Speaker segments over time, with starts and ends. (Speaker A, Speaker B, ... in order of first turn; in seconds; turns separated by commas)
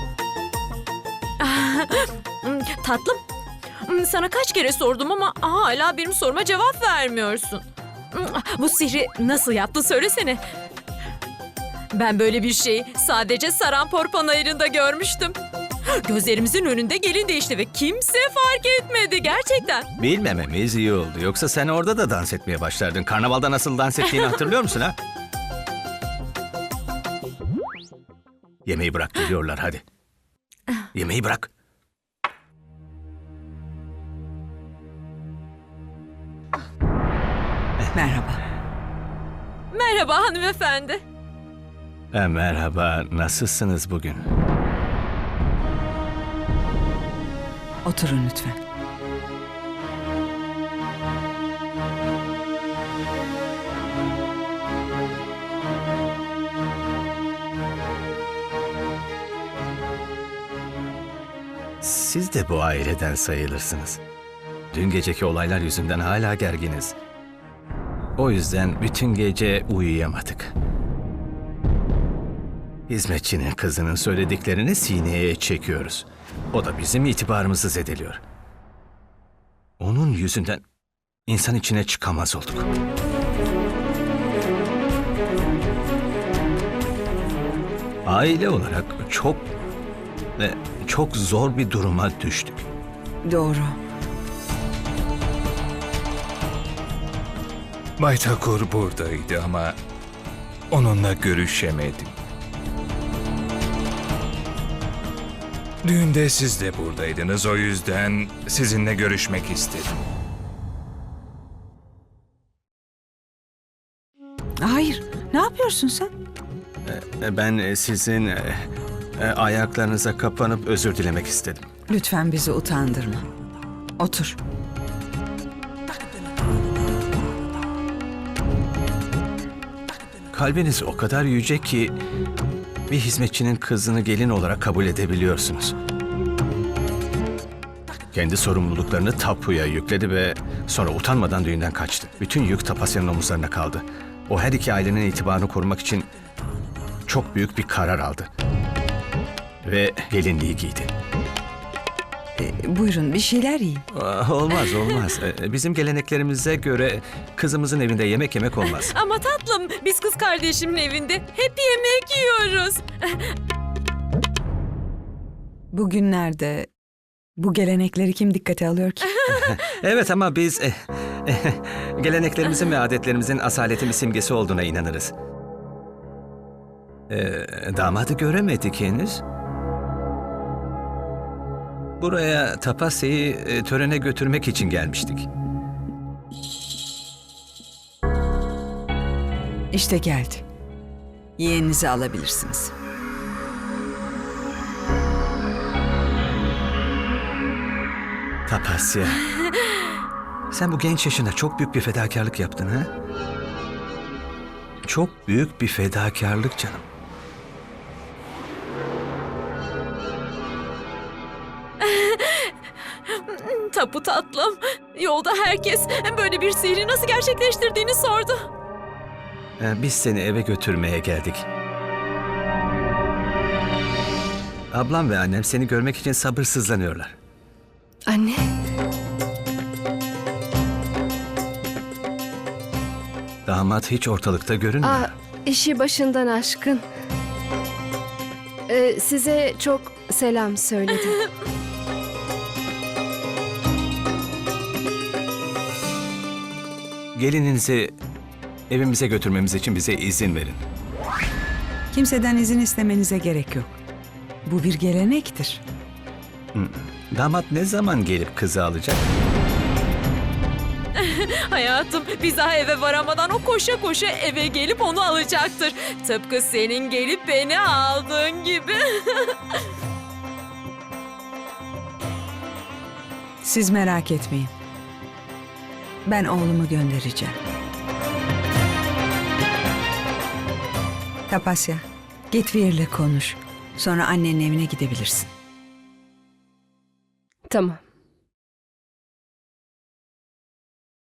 Speaker A: 1.4-3.2, Speaker A: 3.8-10.4, Speaker A: 11.9-15.4, Speaker A: 15.9-19.9, Speaker B: 20.0-25.0, Speaker B: 28.6-29.8, Speaker B: 30.9-31.5, Speaker C: 37.9-38.4, Speaker A: 39.7-41.0, Speaker B: 42.1-44.2, Speaker C: 47.8-48.6, Speaker B: 61.8-64.0, Speaker B: 64.7-66.9, Speaker B: 68.2-70.5, Speaker B: 72.9-78.2, Speaker B: 79.8-80.6, Speaker B: 81.3-82.7, Speaker B: 88.0-89.5, Speaker B: 90.4-92.7, Speaker C: 93.2-93.8, Speaker D: 98.0-99.8, Speaker D: 100.7-102.2, Speaker D: 105.8-110.0, Speaker C: 114.6-116.1, Speaker B: 116.8-118.6, Speaker B: 119.2-121.7, Speaker C: 121.9-123.3, Speaker C: 124.0-124.4, Speaker B: 130.3-131.9, Speaker B: 132.9-135.7, Speaker B: 138.1-146.1, Speaker B: 147.1-148.3, Speaker B: 149.6-150.9, Speaker C: 152.3-153.8, Speaker B: 153.9-158.9, Speaker A: 158.7-163.3, Speaker C: 165.7-166.7, Speaker C: 167.4-169.1, Speaker B: 169.3-175.1, Speaker B: 177.1-179.2, Speaker B: 182.0-185.3, Speaker C: 189.7-190.4, Speaker C: 191.4-192.7, Speaker B: 198.5-199.3, Speaker B: 200.5-202.9, Speaker B: 204.8-206.8, Speaker A: 211.8-212.5, Speaker A: 213.1-218.5, Speaker B: 219.6-221.4, Speaker B: 224.7-227.2, Speaker E: 228.1-228.4, Speaker B: 233.4-235.1, Speaker E: 234.8-236.8, Speaker E: 238.7-241.2, Speaker B: 247.1-247.9, Speaker B: 248.7-250.6, Speaker C: 251.9-253.8, Speaker C: 254.4-255.6, Speaker B: 256.5-259.0, Speaker A: 260.9-269.3, Speaker C: 273.4-274.5, Speaker C: 276.1-277.4, Speaker C: 281.3-285.3, Speaker E: 287.5-287.8